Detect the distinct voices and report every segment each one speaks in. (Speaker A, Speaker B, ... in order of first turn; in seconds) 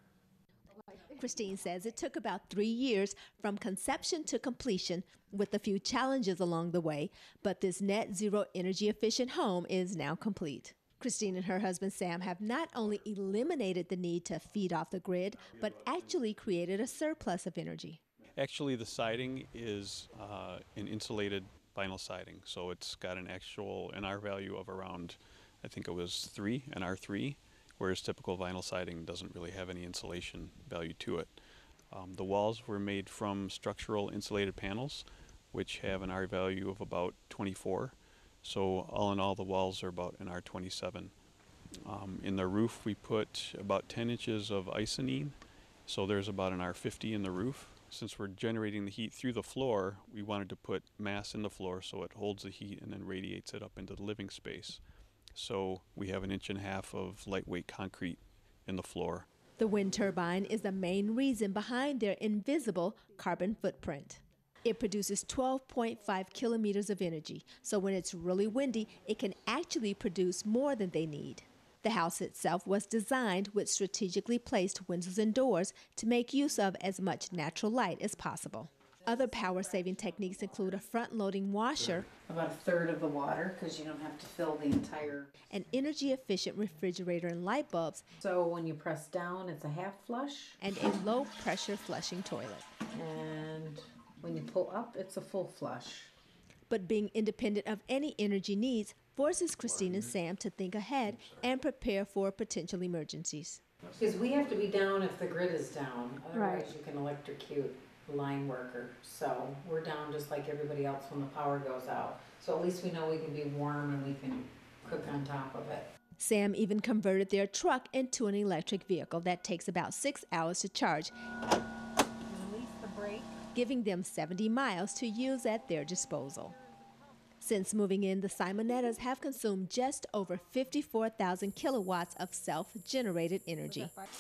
Speaker A: 0.9-18.0, 59.6-82.1, 85.5-88.1, 90.6-92.7, 96.7-103.6, 116.2-121.1, 123.5-126.5, 127.4-133.9
Speaker B: 18.4-31.3, 31.9-41.1, 41.8-54.8, 55.4-59.3
Speaker C: 82.3-85.4, 88.2-90.6, 92.9-96.1, 103.9-115.9, 122.3-123.4